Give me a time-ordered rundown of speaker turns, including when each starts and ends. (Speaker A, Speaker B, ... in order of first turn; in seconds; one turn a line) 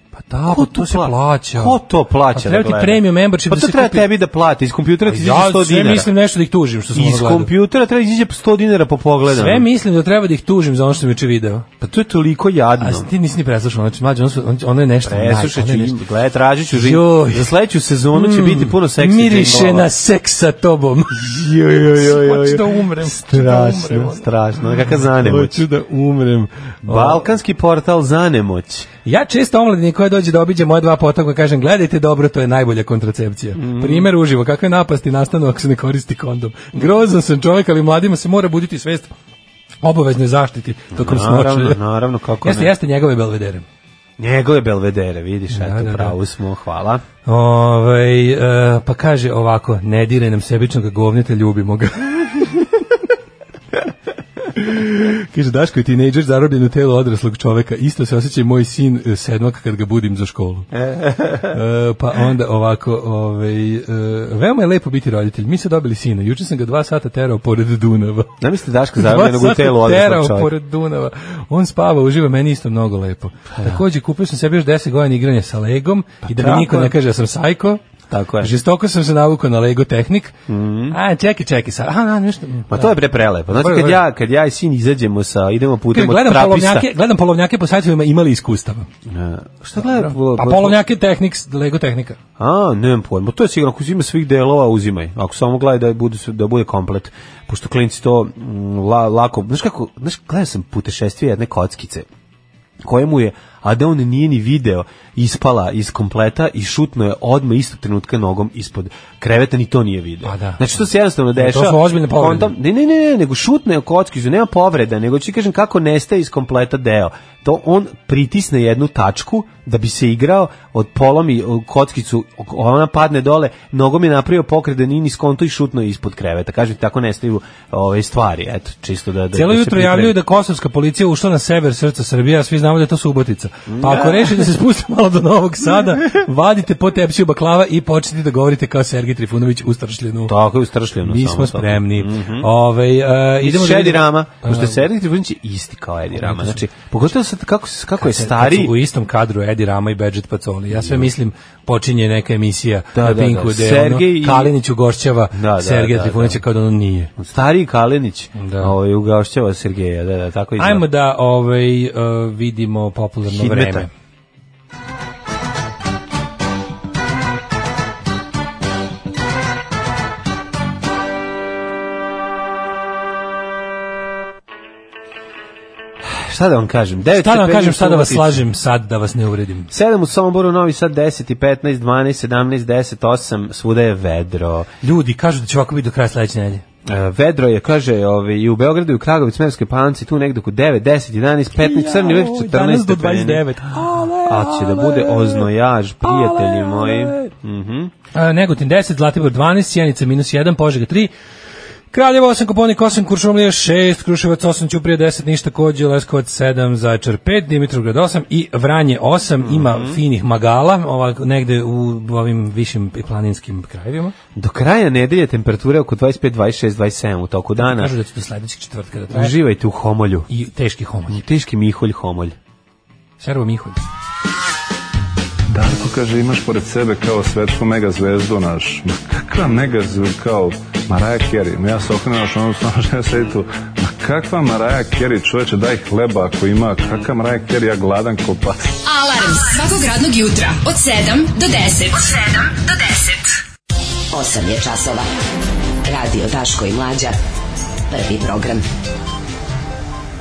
Speaker A: 0.1-1.8
Speaker B: 0.4-6.1
Speaker A: 2.3-4.1
Speaker A: 5.0-7.5
Speaker B: 6.9-9.7
Speaker A: 9.3-11.7
Speaker B: 11.8-13.1
Speaker A: 12.8-16.0
Speaker B: 15.0-19.9
Speaker A: 16.7-17.5
Speaker A: 18.1-24.2
Speaker B: 21.2-25.6
Speaker A: 24.9-27.2
Speaker B: 26.9-28.9
Speaker A: 29.0-39.1
Speaker B: 33.5-34.1
Speaker A: 39.8-41.8
Speaker B: 40.9-42.7
Speaker A: 42.4-43.6
Speaker B: 44.2-47.0
Speaker A: 45.5-46.1
Speaker A: 47.2-52.4
Speaker A: 54.5-60.7
Speaker B: 60.7-61.6
Speaker A: 61.5-68.3
Speaker B: 68.4-70.5
Speaker A: 69.0-77.8
Speaker B: 73.5-73.8
Speaker B: 76.2-76.9
Speaker B: 78.1-78.5
Speaker A: 78.4-80.3
Speaker B: 80.5-81.0
Speaker A: 80.9-84.0
Speaker B: 82.7-86.9
Speaker A: 85.9-88.9
Speaker B: 89.1-90.8
Speaker A: 89.8-92.2
Speaker B: 92.4-102.0
Speaker B: 102.8-130.2
Speaker A: 110.2-110.7
Speaker A: 111.3-112.5
Speaker A: 129.3-140.3
Speaker B: 133.7-134.5
Speaker B: 140.3-142.5
Speaker A: 141.0-144.8
Speaker B: 143.4-148.7
Speaker A: 146.2-146.7
Speaker A: 148.0-157.1
Speaker B: 150.7-151.1
Speaker B: 152.9-154.5
Speaker B: 155.3-156.4
Speaker B: 157.2-160.8
Speaker A: 158.3-158.7
Speaker A: 160.6-163.9
Speaker B: 163.3-163.9
Speaker B: 176.0-178.4
Speaker A: 177.1-179.7
Speaker B: 179.7-184.7
Speaker A: 184.8-186.6
Speaker B: 186.8-193.4
Speaker A: 191.6-195.5
Speaker B: 194.2-197.9
Speaker A: 196.0-197.3
Speaker A: 198.1-201.1
Speaker A: 201.9-214.1
Speaker B: 209.4-210.0
Speaker B: 214.3-217.9
Speaker A: 217.6-219.3
Speaker B: 219.1-220.3
Speaker A: 220.3-221.2
Speaker B: 221.1-222.3
Speaker A: 223.2-223.8
Speaker C: 225.5-238.6
Speaker D: 238.8-243.3
Speaker E: 244.1-245.1
Speaker E: 245.8-247.2
Speaker E: 247.9-248.6